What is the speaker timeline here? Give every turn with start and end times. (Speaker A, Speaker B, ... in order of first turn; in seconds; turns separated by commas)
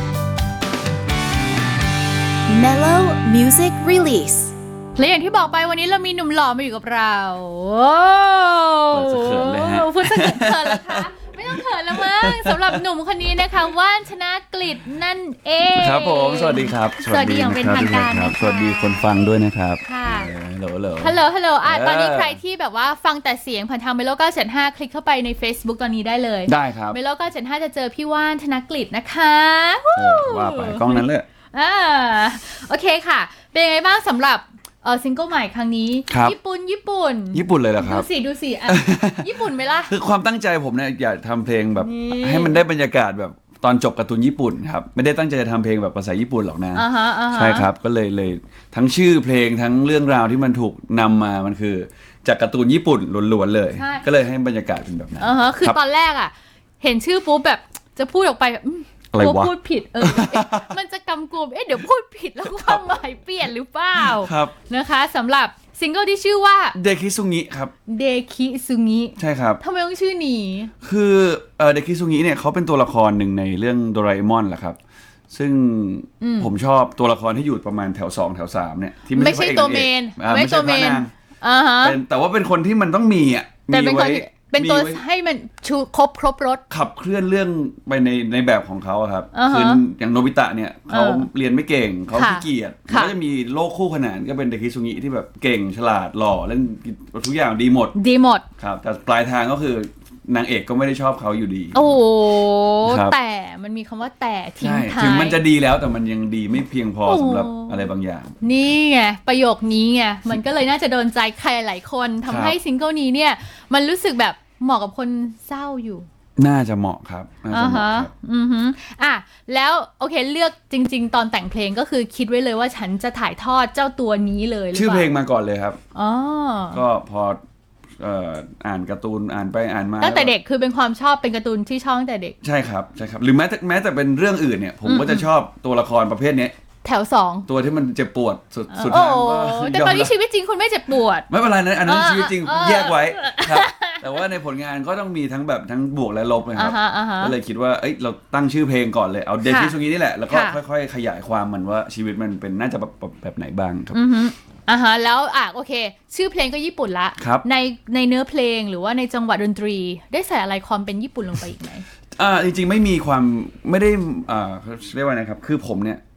Speaker A: 2.5-4.5, Speaker B: 5.0-19.2, Speaker C: 8.9-12.8, Speaker C: 15.7-22.4, Speaker B: 19.8-20.3, Speaker B: 21.0-39.9, Speaker C: 26.5-27.0, Speaker C: 29.9-31.2, Speaker C: 36.1-36.4, Speaker C: 37.3-38.1, Speaker C: 38.7-55.8, Speaker B: 41.8-42.6, Speaker B: 46.7-47.7, Speaker B: 53.7-54.0, Speaker B: 55.2-66.8, Speaker C: 59.1-60.8, Speaker C: 62.4-62.8, Speaker C: 64.0-64.5, Speaker C: 66.7-67.7, Speaker B: 67.9-70.7, Speaker C: 69.2-69.6, Speaker C: 70.8-74.8, Speaker C: 75.3-81.1, Speaker B: 76.2-76.5, Speaker B: 79.1-82.0, Speaker C: 81.8-85.0, Speaker B: 83.7-86.6, Speaker C: 86.7-98.0, Speaker B: 89.3-89.8, Speaker B: 90.9-91.3, Speaker B: 92.1-93.1, Speaker B: 97.9-98.4, Speaker C: 98.6-102.0, Speaker B: 101.7-105.4, Speaker C: 102.8-103.2, Speaker C: 104.6-108.4, Speaker B: 107.0-107.8, Speaker B: 108.4-116.1, Speaker C: 112.3-112.6, Speaker C: 116.4-118.1, Speaker B: 117.5-125.1, Speaker C: 124.7-125.8, Speaker B: 125.9-126.8, Speaker C: 126.7-127.4, Speaker C: 128.0-130.3, Speaker B: 130.0-132.3, Speaker C: 132.4-136.5, Speaker B: 134.8-135.3, Speaker B: 136.8-137.5, Speaker C: 137.5-140.1, Speaker B: 138.7-141.3, Speaker C: 141.3-154.0, Speaker B: 141.8-144.1, Speaker B: 146.5-147.3, Speaker B: 149.4-149.8, Speaker B: 150.3-150.6, Speaker B: 153.9-161.8, Speaker C: 157.2-157.4, Speaker C: 162.2-166.0